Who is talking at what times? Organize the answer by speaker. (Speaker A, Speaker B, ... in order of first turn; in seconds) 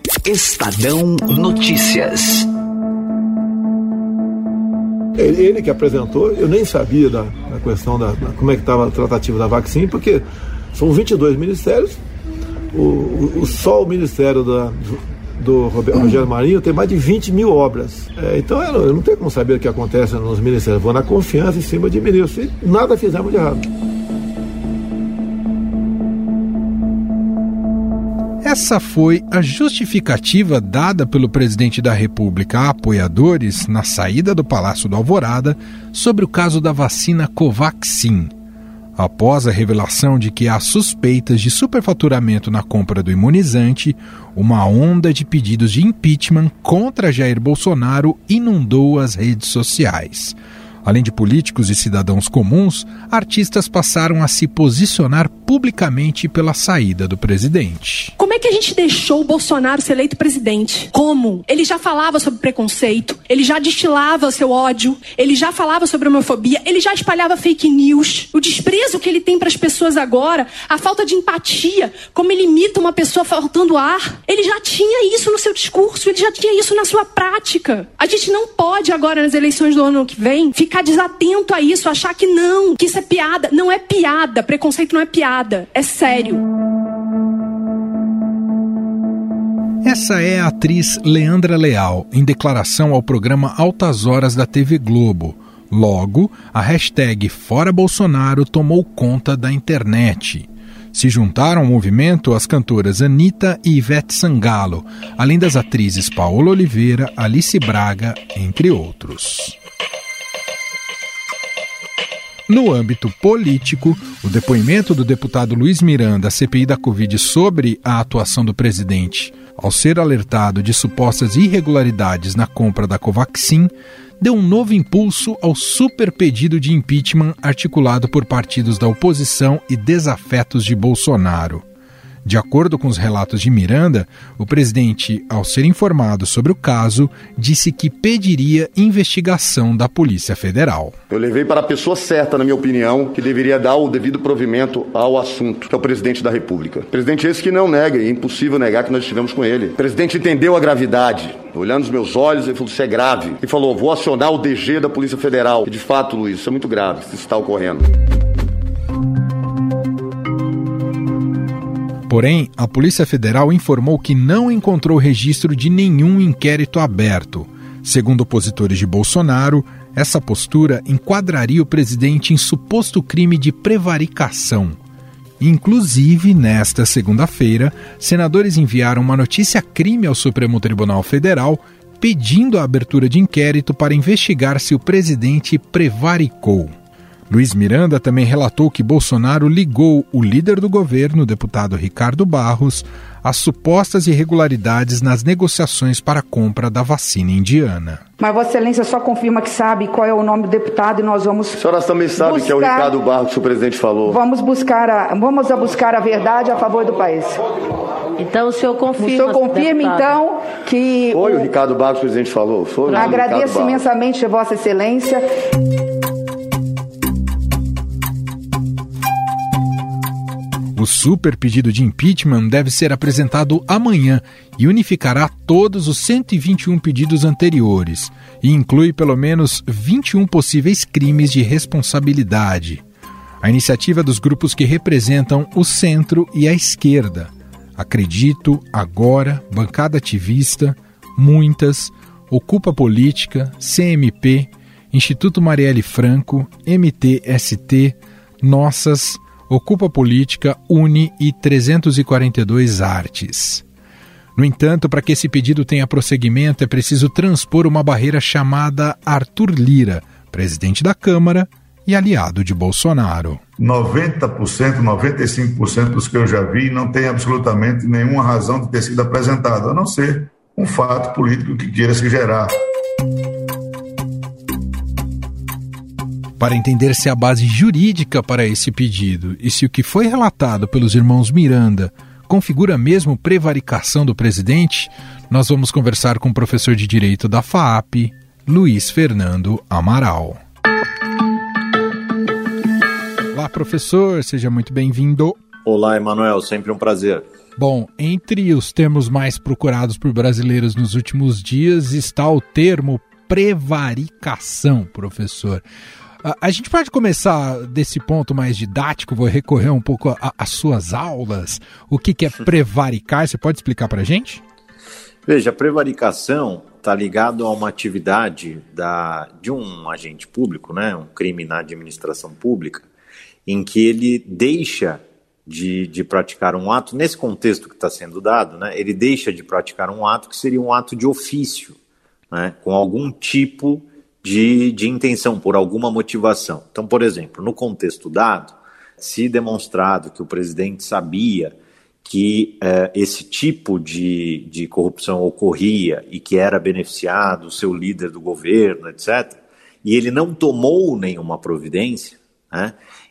Speaker A: 0.2-2.5
Speaker B: 5.2-12.0, 12.7-23.6
Speaker C: 28.4-38.3, 39.0-58.1, 89.8-109.6, 112.5-131.6, 132.2-141.0, 162.1-174.8, 175.4-186.7, 187.3-198.0, 220.8-232.8, 233.4-253.6, 254.4-263.4, 276.4-290.4, 293.3-295.4, 297.6-305.6, 306.2-314.4
Speaker D: 58.2-86.4
Speaker E: 141.1-157.8, 201.6-204.2, 211.1-213.8
Speaker F: 198.2-201.6, 202.2-203.0, 204.1-207.4, 209.0-211.5, 212.9-215.3
Speaker G: 208.2-210.1, 212.9-213.2
Speaker H: 263.6-272.5
Speaker I: 295.7-297.3, 315.3-322.9, 323.5-331.8, 332.3-352.8